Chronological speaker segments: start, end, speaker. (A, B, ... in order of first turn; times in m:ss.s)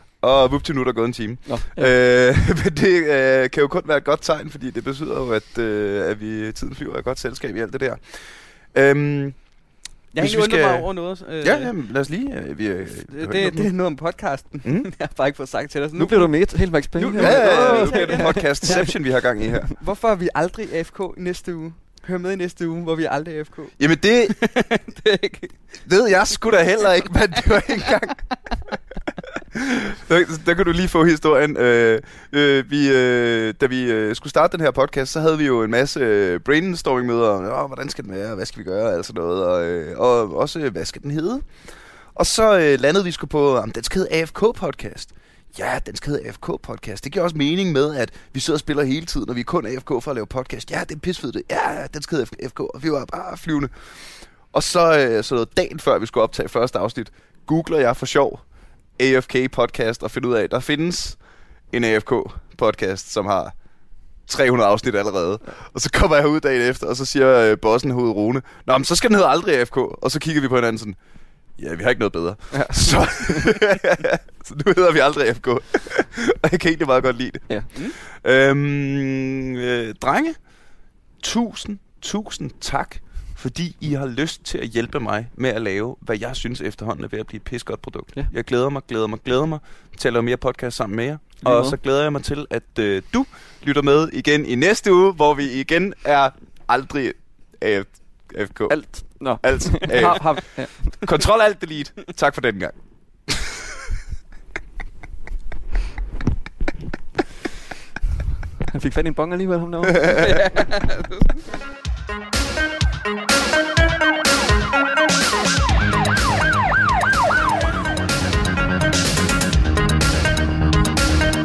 0:00.2-0:09.5 A
0:01.4-0:01.9 B
0:10.1-0:11.7 C
0:10.1-0:13.7 A
0:13.1-0:19.0 C
0:14.6-0:14.9 A
0:16.0-0:18.9 B
0:17.2-0:19.7 A
0:19.7-0:25.8 C
0:23.8-0:24.4 A
0:25.8-0:28.8 A
0:29.4-0:58.4 A
0:59.0-1:01.2 A
1:01.7-1:03.6 A
1:04.3-1:11.0 A
1:11.6-1:20.5 A
1:12.5-1:13.5 B
1:21.2-1:43.7 A
1:31.4-1:31.8 B
1:38.7-1:41.0 B
1:48.7-1:50.3 B
1:50.1-1:51.3 C